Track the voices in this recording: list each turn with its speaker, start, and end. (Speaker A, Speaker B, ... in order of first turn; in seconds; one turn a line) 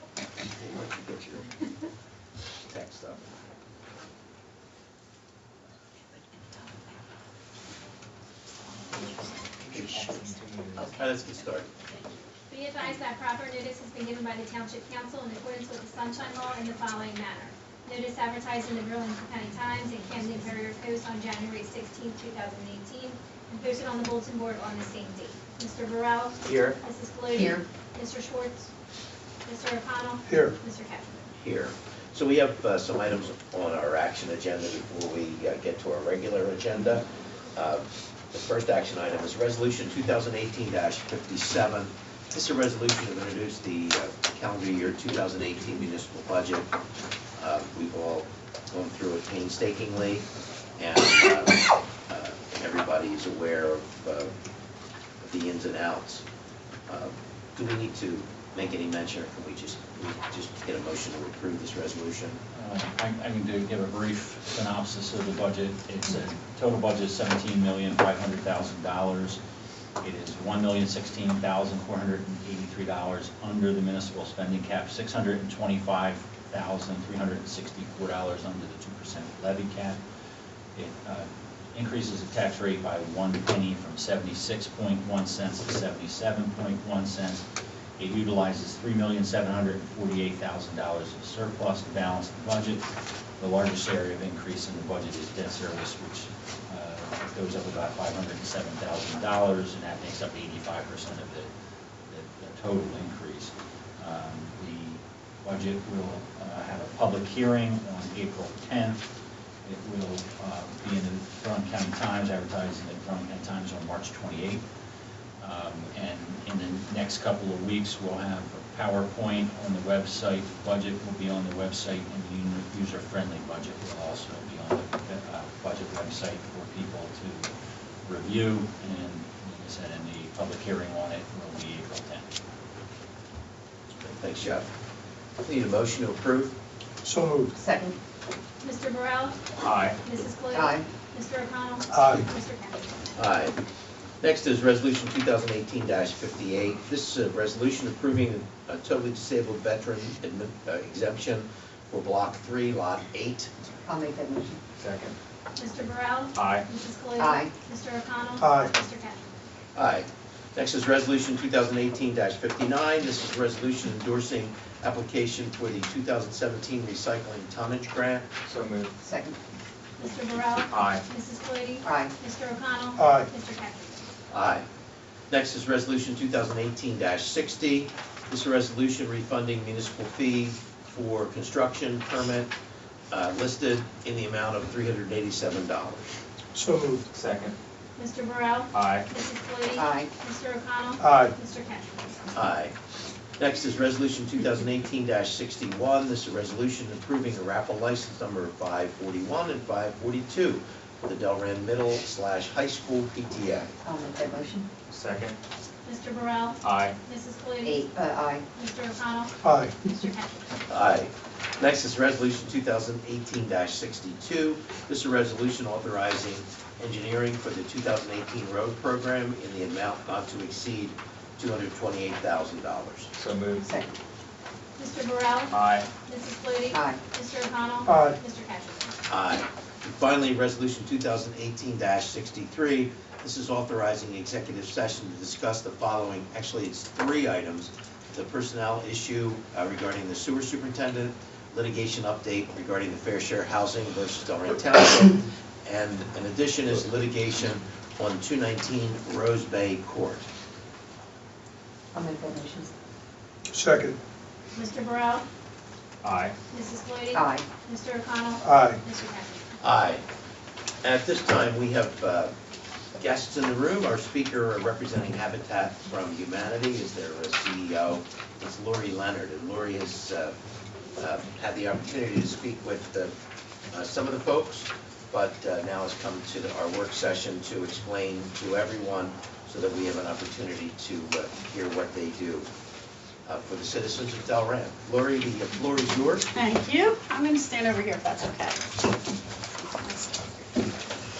Speaker A: 0.5-1.4
Speaker A: 2.6-3.3
Speaker B: 8.9-10.9
Speaker A: 9.7-10.0
Speaker A: 10.8-11.7
Speaker C: 12.5-28.7
Speaker B: 26.4-26.8
Speaker D: 27.3-27.6
Speaker C: 29.4-31.3
Speaker E: 30.3-30.6
Speaker A: 31.4-46.7
Speaker A: 47.4-54.3
Speaker A: 55.2-56.2
Speaker A: 56.9-62.4
Speaker F: 62.5-69.4
Speaker F: 70.0-80.0
Speaker F: 80.7-87.4
Speaker F: 88.0-92.8
Speaker F: 93.4-101.5
Speaker F: 102.1-109.0
Speaker F: 109.6-114.6
Speaker F: 115.4-127.5
Speaker F: 128.0-132.3
Speaker A: 134.0-134.7
Speaker A: 135.4-136.5
Speaker E: 137.0-137.5
Speaker D: 137.5-138.0
Speaker C: 138.6-143.0
Speaker B: 139.6-140.0
Speaker D: 140.5-140.8
Speaker E: 141.9-142.3
Speaker A: 143.2-143.6
Speaker A: 144.2-153.5
Speaker D: 153.8-154.6
Speaker B: 154.8-155.1
Speaker C: 155.6-159.3
Speaker B: 156.3-156.7
Speaker D: 157.2-157.5
Speaker E: 158.4-158.7
Speaker A: 159.7-168.3
Speaker B: 168.4-168.9
Speaker D: 169.0-169.4
Speaker C: 170.0-174.1
Speaker B: 170.7-171.0
Speaker D: 171.8-172.1
Speaker E: 173.0-173.3
Speaker A: 174.3-174.7
Speaker A: 175.3-182.5
Speaker A: 183.1-186.0
Speaker E: 186.5-187.0
Speaker B: 187.1-187.6
Speaker C: 188.0-192.3
Speaker B: 188.7-189.1
Speaker D: 189.7-190.1
Speaker E: 191.0-191.3
Speaker A: 192.3-192.7
Speaker A: 193.4-203.7
Speaker D: 203.8-204.7
Speaker B: 204.9-205.4
Speaker C: 205.8-207.9
Speaker B: 206.6-207.0
Speaker D: 207.6-208.4
Speaker C: 208.5-210.5
Speaker E: 209.4-209.7
Speaker A: 210.7-223.1
Speaker B: 223.2-223.6
Speaker D: 223.6-223.9
Speaker C: 224.8-228.9
Speaker B: 225.5-225.9
Speaker D: 226.7-227.0
Speaker E: 227.8-228.2
Speaker A: 229.1-250.2
Speaker D: 251.9-252.7
Speaker E: 253.5-254.0
Speaker C: 254.5-255.2
Speaker B: 256.0-256.4
Speaker C: 256.5-259.5
Speaker D: 257.1-257.5
Speaker E: 258.4-258.8
Speaker A: 259.6-260.0
Speaker A: 260.8-262.3
Speaker A: 262.9-270.4
Speaker A: 271.0-273.1
Speaker A: 273.7-282.5
Speaker A: 283.2-286.3
Speaker G: 286.4-288.7
Speaker G: 289.6-290.5